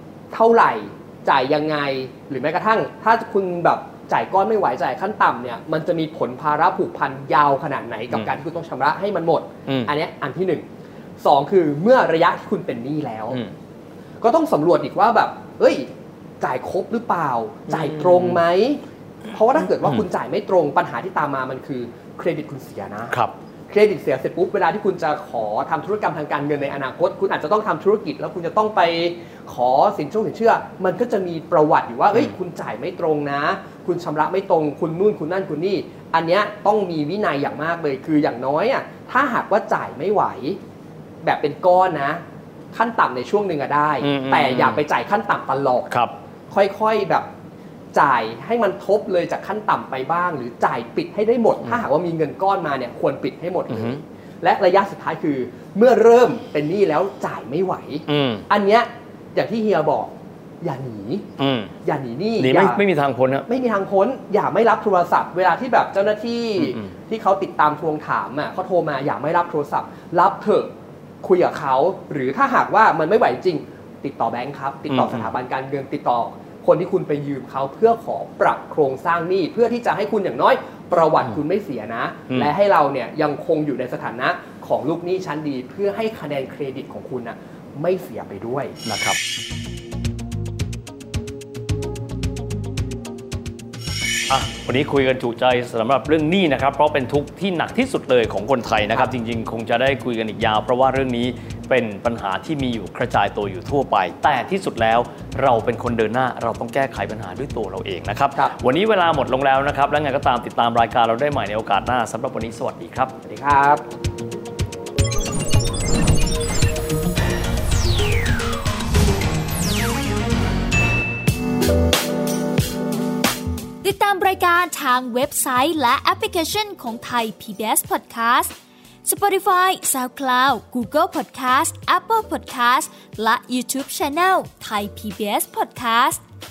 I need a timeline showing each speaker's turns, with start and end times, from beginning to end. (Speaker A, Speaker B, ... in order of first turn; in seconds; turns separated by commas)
Speaker A: 0.3-10.6, Speaker A: 11.2-13.4, Speaker A: 14.2-15.9, Speaker A: 16.4-18.8, Speaker B: 17.7-18.4, Speaker A: 19.3-23.1, Speaker B: 19.6-20.0, Speaker A: 23.7-40.6, Speaker A: 41.2-42.2, Speaker A: 42.7-45.9, Speaker B: 44.0-44.8, Speaker B: 45.9-46.1, Speaker A: 46.5-47.3, Speaker A: 47.9-61.2, Speaker B: 53.7-54.0, Speaker B: 58.1-58.4, Speaker B: 61.4-61.7, Speaker A: 61.8-62.8, Speaker B: 62.4-63.5, Speaker A: 63.5-70.7, Speaker B: 66.6-66.9, Speaker A: 71.2-88.7, Speaker B: 74.9-75.3, Speaker B: 88.8-89.2, Speaker B: 94.3-113.1, Speaker A: 113.2-113.8, Speaker C: 123.8-128.5, Speaker C: 129.0-136.2